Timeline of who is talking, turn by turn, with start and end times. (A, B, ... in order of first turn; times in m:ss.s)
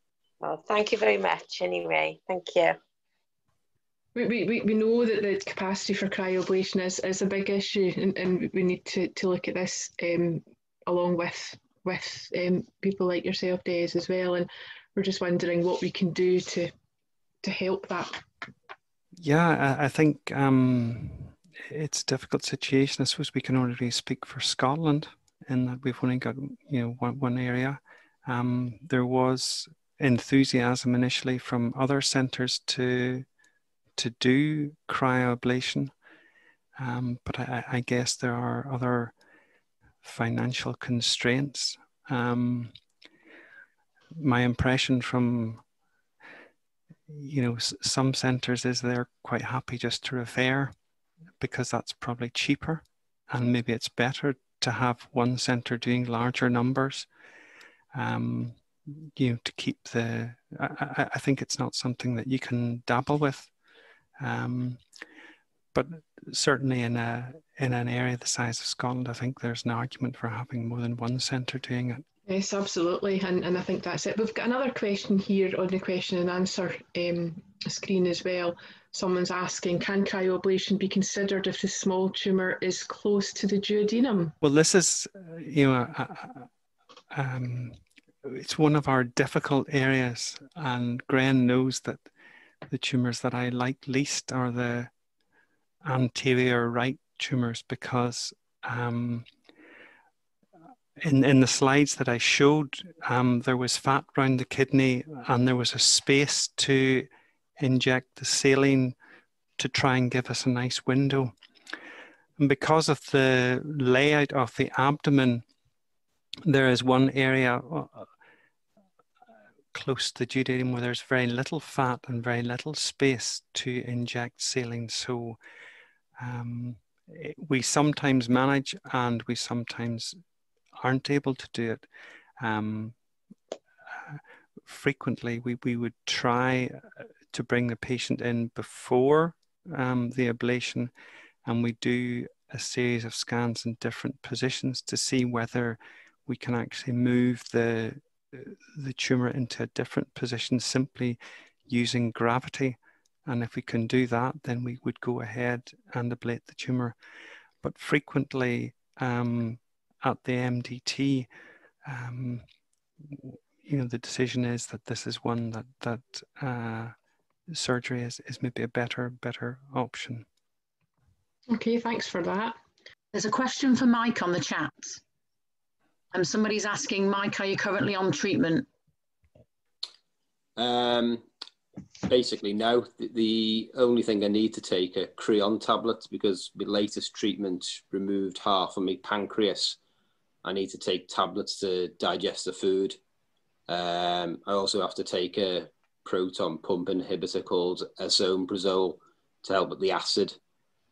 0:00.4-0:02.8 A
0:04.1-0:16.7 B
0:17.4-0:18.2 B
0:19.2-0:33.3 C
0:34.0-0:35.9 C
0:36.8-0:39.1 C
0:40.0-0:42.7 C
0:44.2-0:45.6 C
0:47.1-0:50.7 C
0:51.4-0:57.1 C
0:57.9-1:03.5 C
1:04.2-1:04.8 C
1:05.7-1:12.0 C
1:12.3-1:24.4 B
1:24.4-1:26.5 C
1:27.1-1:32.1 C
1:32.7-1:34.9 C
1:35.8-1:39.3 C
1:41.0-1:49.0 C
1:49.6-1:51.3 C
1:52.4-1:55.4 C
1:56.4-1:58.1 C
1:59.7-2:05.4 C
2:06.2-2:10.2 C
2:10.8-2:11.8 C
2:12.4-2:13.0 C
2:14.0-2:20.9 C
2:21.4-2:37.0 C
2:37.6-2:41.3 C
2:41.8-2:42.4 C
2:43.0-2:46.9 C
2:47.5-2:50.3 C
2:51.5-2:52.6 B
2:53.1-2:55.0 D
2:56.1-2:58.7 D
3:00.6-3:01.2 E
3:02.1-3:09.8 E
3:10.4-3:13.0 E
3:13.7-3:20.4 E